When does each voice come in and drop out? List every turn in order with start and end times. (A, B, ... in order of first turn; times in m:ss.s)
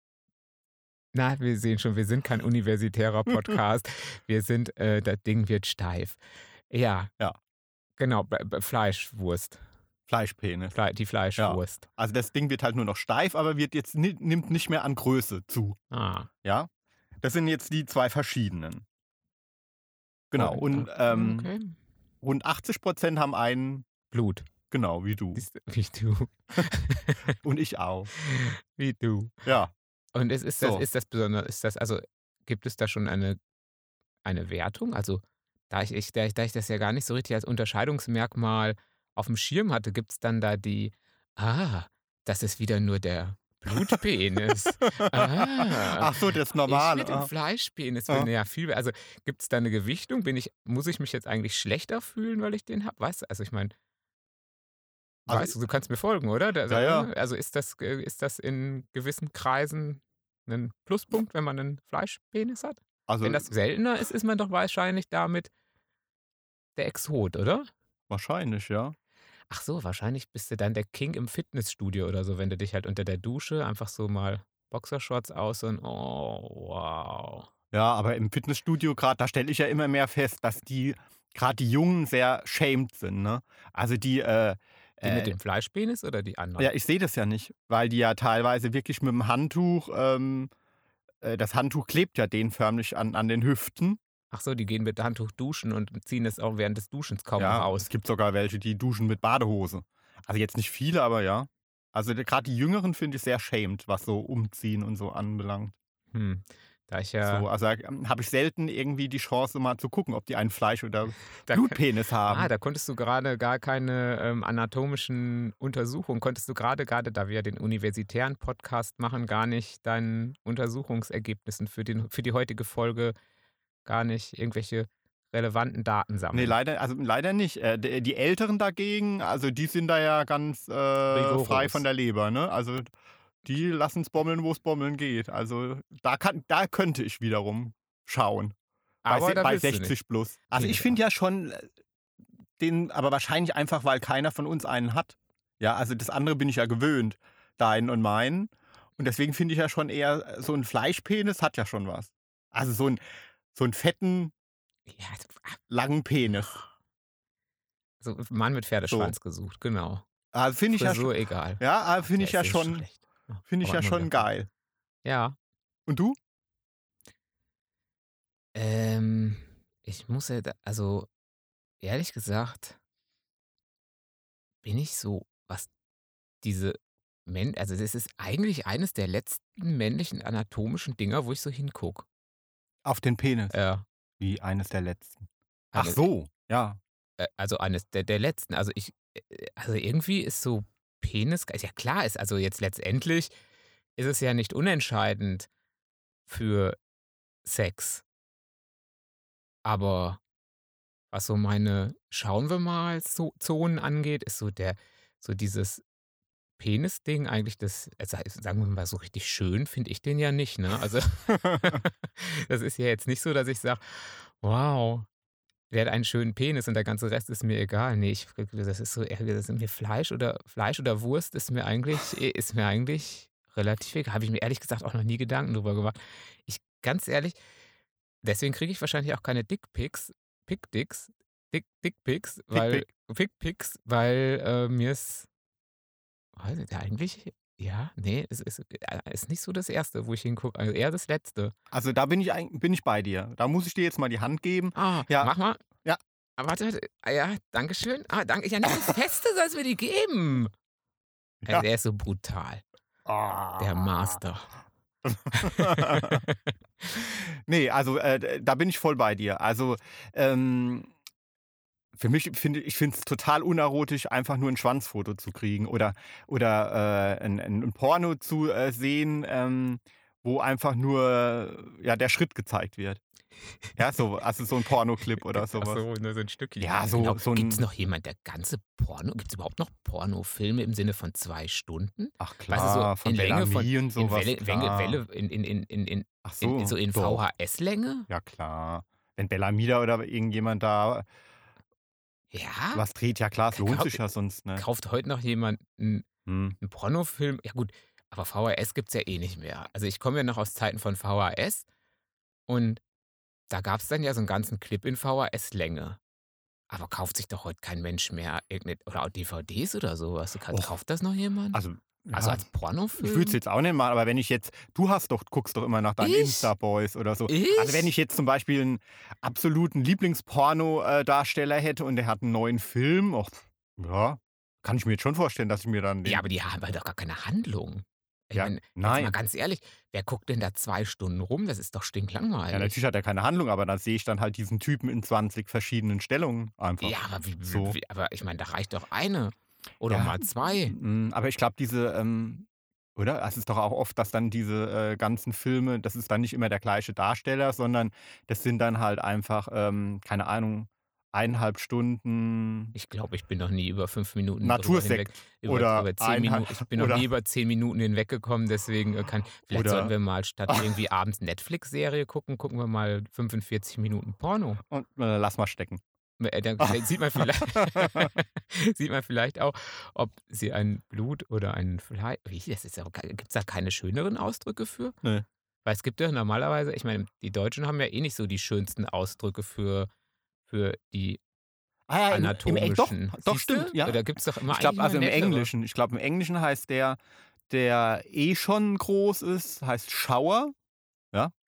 0:01.1-0:06.2 A
0:06.7-0:07.1 A
0:08.0-0:09.6 A
0:10.1-0:10.8 B
0:10.7-0:11.9 A
0:11.4-0:15.8 B
0:15.9-0:16.3 A
0:16.4-0:16.7 B
0:17.2-0:18.8 B
0:20.3-0:21.5 B
0:20.4-0:21.8 A
0:22.2-0:23.9 B
0:24.1-0:24.5 A
0:24.7-0:25.4 B
0:25.4-0:27.4 A
0:27.4-0:28.1 B
0:28.1-0:29.4 A
0:29.4-0:29.7 B
0:30.1-0:33.4 A
0:30.6-0:30.8 B
0:34.2-0:53.7 A
0:44.8-0:47.3 B
0:55.3-0:55.5 B
0:55.3-1:05.5 A
0:56.7-0:57.1 B
1:03.1-1:03.5 B
1:06.8-1:07.7 A
1:08.1-1:09.0 B
1:09.5-1:17.5 A
1:17.7-1:25.3 B
1:25.0-1:26.7 A
1:26.6-1:30.5 B
1:31.2-1:34.0 B
1:34.3-1:37.9 A
1:37.4-1:45.7 B
1:46.1-1:47.5 A
1:47.2-1:52.5 B
1:51.5-2:03.1 A
2:03.8-2:06.6 A
2:06.3-2:12.9 B
2:11.1-2:11.8 A
2:13.4-2:18.5 B
2:19.0-2:20.0 A
2:19.1-2:21.7 B
2:20.5-2:21.0 A
2:22.6-2:33.0 B
2:33.5-2:34.3 B
2:34.9-2:35.6 A
2:35.7-2:36.6 B
2:38.0-2:40.0 A
2:38.9-2:39.1 B
2:40.3-2:42.9 B
2:40.7-2:44.3 A
2:43.5-2:44.5 B
2:45.0-2:45.4 A
2:45.9-2:46.2 B
2:48.5-2:51.1 A
2:51.8-2:52.8 A
2:54.6-2:55.7 A
2:56.4-3:02.0 A
3:02.8-3:03.6 B
3:03.5-3:03.8 A
3:04.2-3:06.8 B
3:05.7-3:06.0 A
3:07.2-3:13.3 A
3:14.0-3:15.5 A
3:16.3-3:16.8 A
3:17.4-3:18.0 A
3:19.6-3:20.2 A
3:21.1-3:25.8 A
3:26.6-3:35.1 A
3:35.7-3:47.4 A
3:48.2-3:55.3 A
3:52.5-3:52.9 B
3:56.4-4:01.5 A
4:01.7-4:06.0 B
4:04.8-4:05.6 A
4:06.4-4:10.5 A
4:11.5-4:12.6 A
4:13.0-4:13.9 B
4:13.6-4:14.5 A
4:15.1-4:16.2 B
4:15.3-4:17.0 A
4:17.0-4:20.9 B
4:22.0-4:33.0 B
4:33.8-4:35.8 B
4:35.2-4:48.1 A
4:36.6-4:37.6 B
4:42.2-4:45.0 B
4:46.2-4:47.2 B
4:48.1-4:51.1 B
4:52.3-4:52.8 A
4:52.7-4:54.6 B
4:53.5-4:54.0 A
4:54.5-4:56.1 A
4:56.2-4:56.6 B
4:56.6-5:01.6 A
5:02.5-5:02.8 A
5:03.5-5:06.0 A
5:06.7-5:11.6 A
5:11.5-5:26.3 B
5:12.1-5:13.4 A
5:16.0-5:16.5 A
5:17.3-5:17.9 A
5:26.0-5:32.8 A
5:28.3-5:29.1 B
5:32.5-5:37.8 B
5:36.8-5:40.7 A
5:39.9-5:52.7 B
5:52.8-6:04.6 A
5:54.4-5:57.1 B
5:59.5-5:59.9 B
6:04.7-6:05.8 B
6:06.2-6:15.0 A
6:06.6-6:08.1 B
6:15.6-6:19.9 A
6:20.5-6:21.2 A
6:21.9-6:30.5 B
6:22.1-6:25.5 A